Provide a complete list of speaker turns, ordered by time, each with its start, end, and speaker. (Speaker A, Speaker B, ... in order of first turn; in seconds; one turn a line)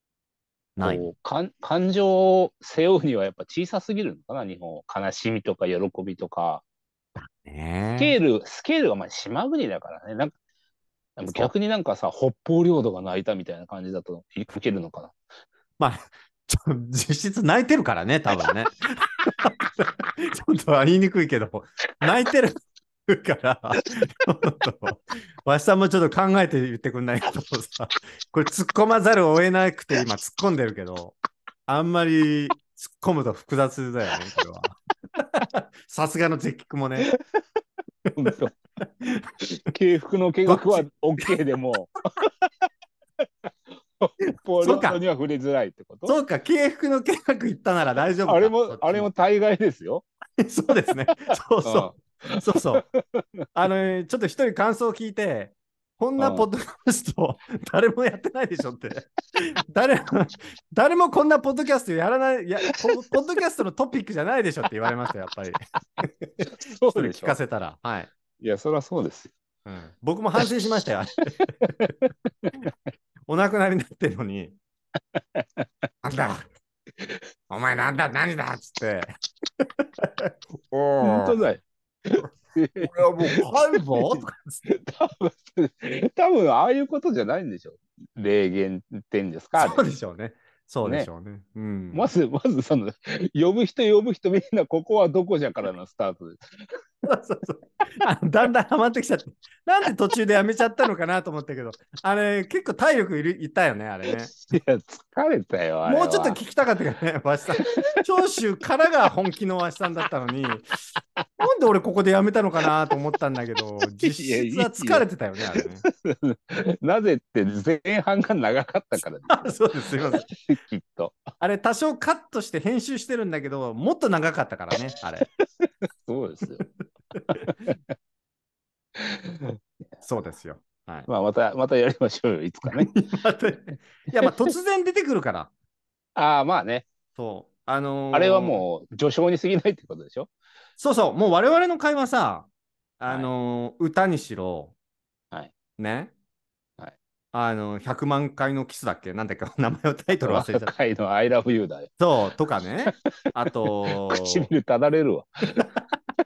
Speaker A: 0.8-1.1
Speaker B: 0.8-6.6
Speaker A: 7.2-8.2
Speaker B: 8.0-10.3
Speaker B: 11.2-15.1
Speaker A: 15.8-31.1
Speaker A: 31.7-37.1
Speaker B: 38.1-38.5
Speaker A: 39.0-39.4
Speaker B: 39.4-41.9
Speaker A: 40.5-41.4
Speaker B: 44.0-46.2
Speaker A: 44.6-45.0
Speaker A: 46.0-49.1
Speaker B: 48.2-50.0
Speaker A: 50.4-52.8
Speaker B: 51.6-53.2
Speaker A: 53.5-68.1
Speaker B: 56.2-56.5
Speaker B: 66.5-67.4
Speaker B: 68.4-69.3
Speaker A: 69.7-71.5
Speaker B: 71.6-72.5
Speaker A: 73.3-74.6
Speaker B: 75.2-75.7
Speaker A: 76.0-76.5
Speaker B: 77.0-77.2
Speaker A: 77.5-79.1
Speaker A: 79.6-81.4
Speaker B: 81.0-89.8
Speaker A: 82.8-84.6
Speaker A: 89.6-92.1
Speaker B: 91.9-96.6
Speaker A: 97.0-104.3
Speaker B: 104.1-106.4
Speaker A: 105.8-110.9
Speaker B: 107.6-108.0
Speaker A: 111.4-115.8
Speaker B: 114.0-121.2
Speaker A: 119.3-120.3
Speaker A: 121.4-125.2
Speaker B: 125.2-126.6
Speaker A: 127.2-127.5
Speaker B: 127.3-127.8
Speaker B: 128.9-129.6
Speaker A: 130.0-131.1
Speaker B: 131.1-132.9
Speaker A: 132.7-135.5
Speaker B: 136.1-136.8
Speaker A: 137.2-138.6
Speaker B: 138.1-140.3
Speaker A: 140.8-142.5
Speaker A: 143.0-144.7
Speaker A: 145.8-146.1
Speaker A: 147.3-150.7
Speaker B: 150.2-152.0
Speaker A: 152.0-154.5
Speaker B: 153.9-155.7